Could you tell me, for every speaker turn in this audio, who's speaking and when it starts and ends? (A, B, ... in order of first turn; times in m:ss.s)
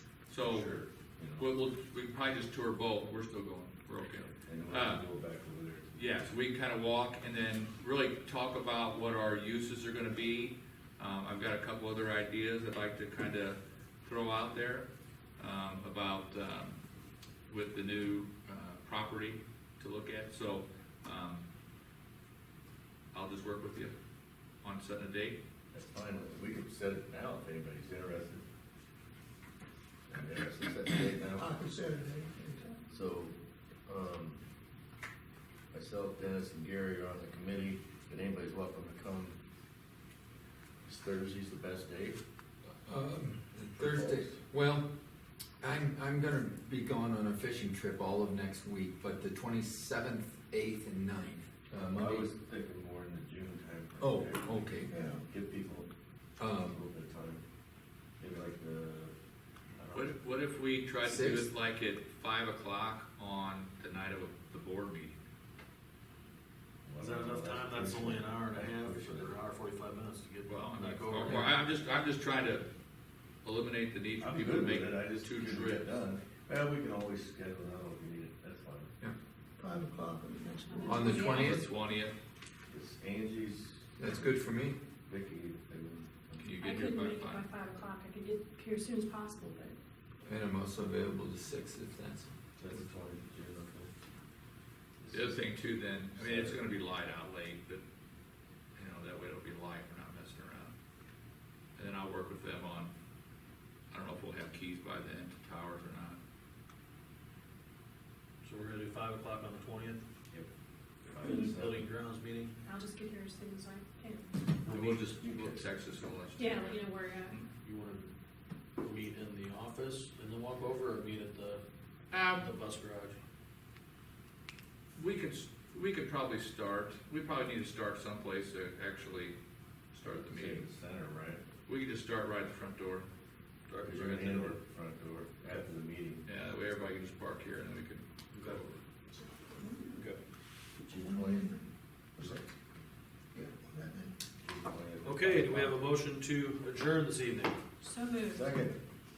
0:00.3-0:00.8 A
0:00.4-0:01.4 B
0:01.4-0:05.0 A
0:04.3-0:06.2 B
0:05.9-0:14.9 A
0:15.4-0:16.8 A
0:17.5-0:21.4 A
0:23.1-0:23.9 A
0:24.6-0:25.4 A
0:25.7-0:28.4 B
0:30.1-0:31.8 B
0:31.3-0:32.8 C
0:32.9-0:34.4 B
0:35.7-0:39.4 B
0:40.8-0:42.2 B
0:42.8-0:44.9 D
0:43.8-0:44.4 B
0:45.6-0:52.3 D
0:51.7-0:55.9 B
0:54.0-0:54.9 D
0:54.9-0:55.2 C
0:56.4-0:56.8 D
0:56.5-0:57.4 B
0:58.2-0:59.1 B
0:59.8-1:00.1 B
0:59.9-1:05.2 A
1:01.0-1:01.5 D
1:06.8-1:09.4 B
1:07.0-1:11.6 E
1:10.4-1:12.7 A
1:13.4-1:15.8 A
1:14.2-1:18.9 B
1:19.6-1:21.2 C
1:20.7-1:21.5 F
1:20.8-1:21.7 D
1:21.2-1:22.2 A
1:22.7-1:24.2 B
1:24.0-1:24.8 D
1:25.0-1:26.5 B
1:26.4-1:27.4 A
1:26.6-1:29.8 F
1:30.2-1:32.3 D
1:32.6-1:33.9 B
1:35.0-1:35.4 B
1:35.1-1:37.8 A
1:36.1-1:36.6 B
1:38.8-1:40.7 A
1:41.8-1:42.9 A
1:43.9-1:46.2 A
1:48.4-1:50.0 E
1:51.0-1:51.9 B
1:51.2-1:51.5 F
1:51.3-1:52.5 E
1:52.6-1:54.4 F
1:54.6-1:55.0 E
1:54.6-1:57.5 A
1:54.7-1:55.6 B
1:56.4-1:57.4 F
1:57.6-1:58.1 E
1:58.8-2:01.6 E
2:02.1-2:02.4 A
2:02.3-2:03.2 E
2:05.0-2:09.4 A
2:09.9-2:10.7 A
2:10.2-2:11.4 B
2:11.7-2:13.1 A
2:13.7-2:14.6 E
2:13.8-2:16.2 B
2:16.2-2:18.8 A
2:18.3-2:18.6 E
2:19.5-2:19.9 C
2:20.8-2:21.6 B
2:21.0-2:21.5 C
2:22.2-2:22.4 B
2:23.3-2:24.1 C
2:24.4-2:25.8 B
2:25.0-2:27.6 E
2:27.8-2:28.4 F
2:28.3-2:28.8 B